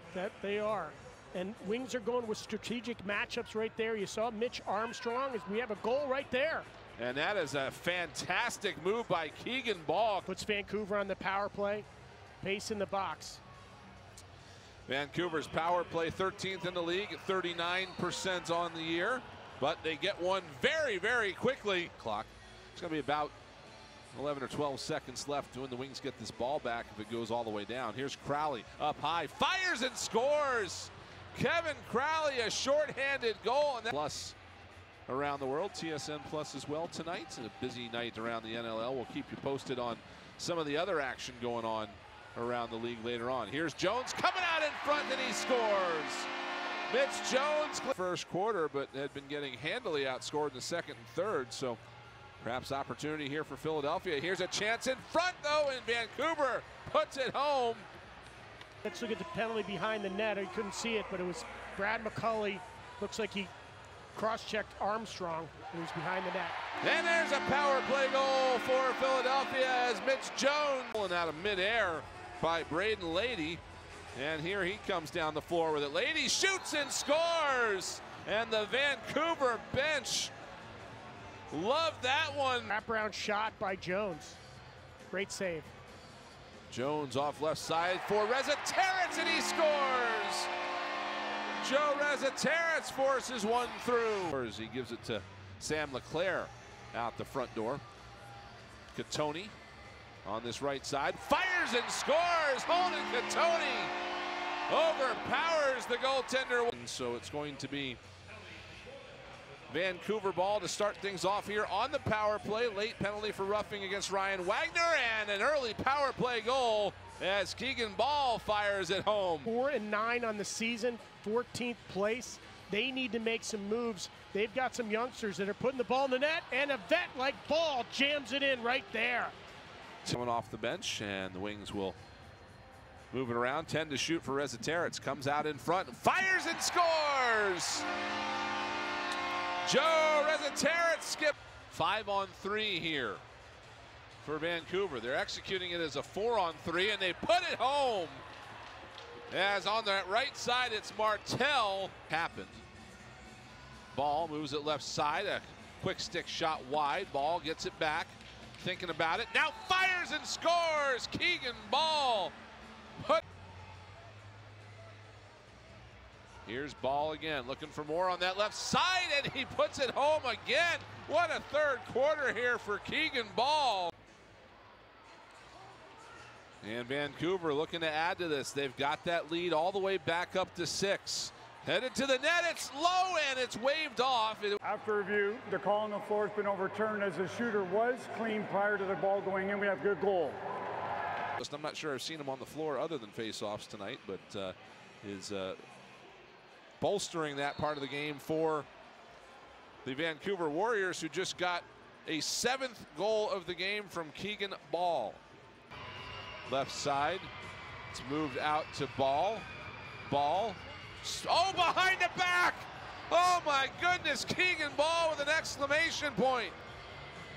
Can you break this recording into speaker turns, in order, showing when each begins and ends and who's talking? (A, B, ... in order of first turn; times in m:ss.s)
0:00.1-0:06.7 A
0:07.0-0:10.3 B
0:10.3-0:11.9 A
0:12.4-0:13.4 A
0:14.9-0:23.3 B
0:24.1-0:34.4 B
0:35.1-0:46.3 B
0:46.9-0:51.8 B
0:52.4-0:57.9 B
0:58.8-1:03.5 A
1:04.1-1:06.6 A
1:06.8-1:13.6 B
1:14.1-1:20.3 B
1:21.5-1:22.7 B
1:22.7-1:24.4 A
1:25.1-1:25.7 A
1:26.7-1:30.5 B
1:31.6-1:37.8 B
1:38.9-1:39.6 B
1:40.2-1:43.9 B
1:44.7-1:48.0 B
1:49.7-1:59.5 B
1:59.4-2:09.3 A
2:10.0-2:12.0 B
2:13.1-2:17.9 B
2:19.6-2:23.2 B
2:24.2-2:28.2 B
2:29.3-2:32.6 B
2:33.9-2:42.3 B
2:43.0-2:43.2 B
2:46.4-2:53.9 B
2:56.6-3:04.6 B
3:04.6-3:10.4 C
3:11.4-3:15.6 B
3:16.8-3:18.7 B
3:19.8-3:25.2 B
3:26.5-3:27.3 B
3:27.9-3:29.5 B
3:30.0-3:36.6 B